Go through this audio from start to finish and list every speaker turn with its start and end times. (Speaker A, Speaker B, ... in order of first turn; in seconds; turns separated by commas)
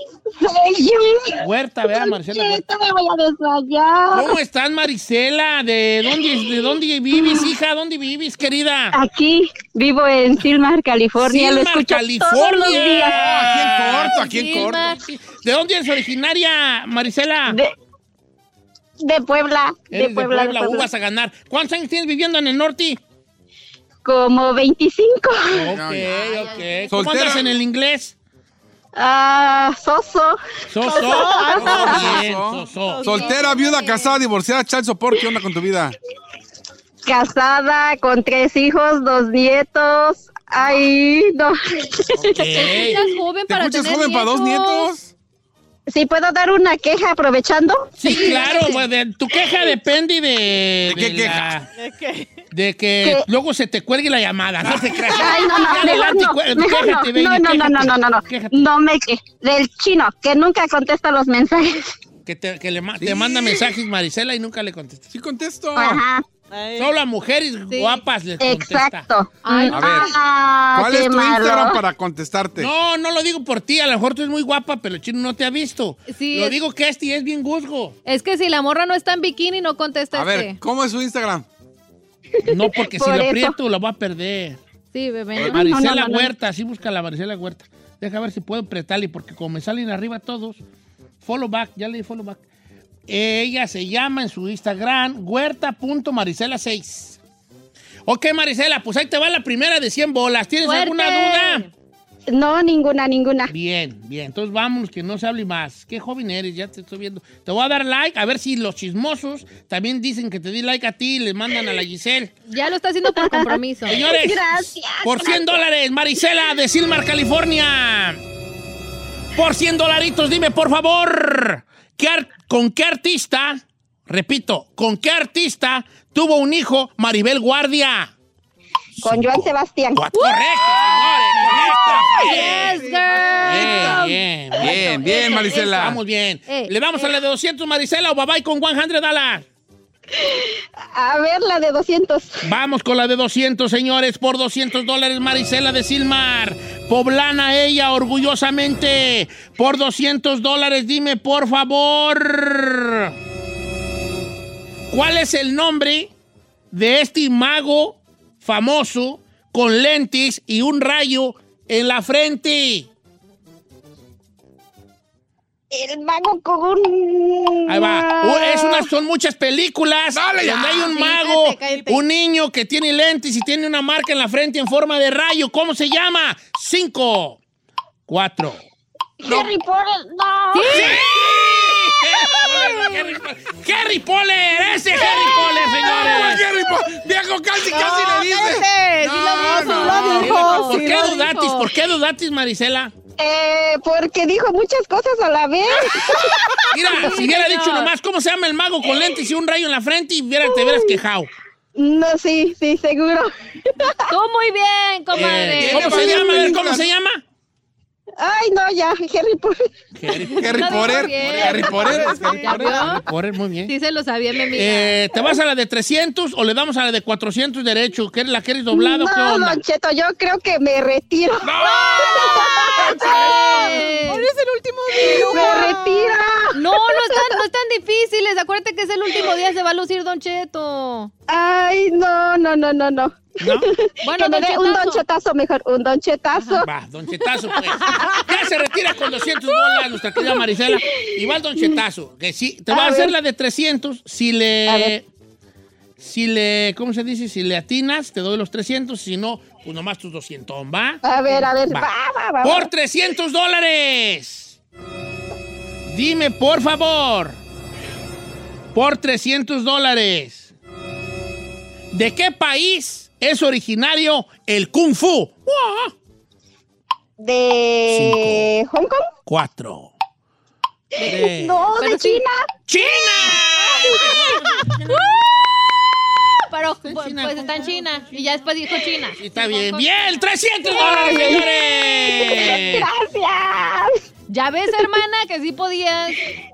Speaker A: 0.4-4.4, Speaker B: 1.4-2.6, Speaker B: 4.1-9.0, Speaker A: 6.0-7.5, Speaker A: 8.9-13.2, Speaker B: 11.2-17.6, Speaker C: 13.0-14.9, Speaker D: 14.1-15.0, Speaker A: 17.5-17.7, Speaker A: 19.0-20.9, Speaker B: 19.9-23.0, Speaker A: 24.0-25.7, Speaker B: 25.5-28.1, Speaker C: 25.7-26.3, Speaker D: 26.1-27.1, Speaker C: 26.9-27.5, Speaker A: 28.9-32.2, Speaker B: 30.7-33.3, Speaker E: 30.8-33.6, Speaker C: 31.6-35.9, Speaker D: 33.0-34.1, Speaker A: 37.0-43.0, Speaker B: 42.2-43.0, Speaker D: 42.5-44.9, Speaker C: 43.5-45.1, Speaker A: 45.9-48.5, Speaker B: 48.0-51.7, Speaker D: 48.1-48.9, Speaker C: 50.9-51.5, Speaker E: 51.8-52.4, Speaker B: 52.5-58.7, Speaker A: 55.0-61.9, Speaker B: 62.2-65.1, Speaker C: 63.0-63.6, Speaker C: 65.1-66.0, Speaker A: 65.8-66.2, Speaker E: 66.5-66.9, Speaker B: 66.8-69.1, Speaker D: 67.7-68.0, Speaker A: 68.4-71.8, Speaker D: 69.4-70.0, Speaker C: 69.7-70.1, Speaker C: 70.7-72.7, Speaker B: 72.6-78.0, Speaker D: 76.1-76.6, Speaker D: 78.0-80.6, Speaker C: 80.1-81.5, Speaker A: 82.4-83.5, Speaker B: 82.4-84.6, Speaker D: 84.9-85.6, Speaker B: 85.4-90.6, Speaker A: 85.5-86.3, Speaker B: 91.2-92.4, Speaker B: 93.1-97.2, Speaker B: 98.1-101.7, Speaker D: 100.6-101.7, Speaker A: 102.3-103.5, Speaker B: 103.5-112.3, Speaker D: 112.5-114.0, Speaker A: 113.1-115.6, Speaker B: 113.9-118.2, Speaker B: 119.3-128.1, Speaker B: 129.0-132.8, Speaker A: 129.0-130.1, Speaker D: 130.1-130.4, Speaker C: 130.6-136.0, Speaker D: 132.1-134.1, Speaker B: 133.4-139.4, Speaker D: 134.7-135.7, Speaker D: 136.5-137.2, Speaker A: 140.2-142.4, Speaker B: 142.4-153.1, Speaker B: 154.9-156.1, Speaker B: 156.7-162.9, Speaker A: 165.7-168.9, Speaker B: 167.7-177.4, Speaker C: 170.1-171.0, Speaker D: 170.9-172.0, Speaker B: 178.1-178.6, Speaker A: 179.2-181.0, Speaker C: 179.2-179.5, Speaker D: 180.5-180.9, Speaker B: 180.7-186.4, Speaker C: 181.0-181.8, Speaker A: 185.1-185.4, Speaker C: 185.8-190.7, Speaker E: 187.7-190.8, Speaker D: 189.1-191.7, Speaker B: 189.9-192.9, Speaker A: 193.2-197.1, Speaker B: 196.7-201.3, Speaker D: 197.0-197.9, Speaker A: 200.4-201.0, Speaker A: 201.8-204.0, Speaker D: 204.1-206.2, Speaker B: 205.1-207.2, Speaker C: 205.2-206.9, Speaker A: 206.0-206.6, Speaker A: 208.2-209.7, Speaker B: 209.9-213.7, Speaker C: 210.3-213.0, Speaker D: 210.3-213.0, Speaker E: 211.9-212.4, Speaker D: 213.7-215.0, Speaker B: 214.5-219.6, Speaker A: 218.7-223.3, Speaker C: 221.4-223.6, Speaker E: 222.0-226.1, Speaker D: 223.1-224.3, Speaker A: 224.9-227.4, Speaker D: 225.1-225.8, Speaker D: 226.5-231.1, Speaker A: 231.3-236.7, Speaker B: 233.4-233.7, Speaker D: 234.0-235.0, Speaker D: 236.3-236.6, Speaker B: 236.6-245.0, Speaker A: 237.9-238.1, Speaker A: 240.2-241.8, Speaker A: 242.7-243.1, Speaker A: 244.7-244.9, Speaker B: 246.0-251.9, Speaker A: 251.0-252.7, Speaker B: 252.4-254.6, Speaker B: 255.9-257.4, Speaker B: 258.7-260.5, Speaker B: 261.9-265.9, Speaker A: 267.2-269.1, Speaker B: 267.9-268.5, Speaker B: 269.3-269.9, Speaker A: 270.9-272.5, Speaker B: 271.0-271.7, Speaker D: 271.7-272.2, Speaker B: 272.7-275.0, Speaker A: 273.6-274.3, Speaker D: 276.5-280.2, Speaker B: 276.8-278.5, Speaker B: 279.1-282.9, Speaker A: 280.6-284.0, Speaker D: 284.3-286.2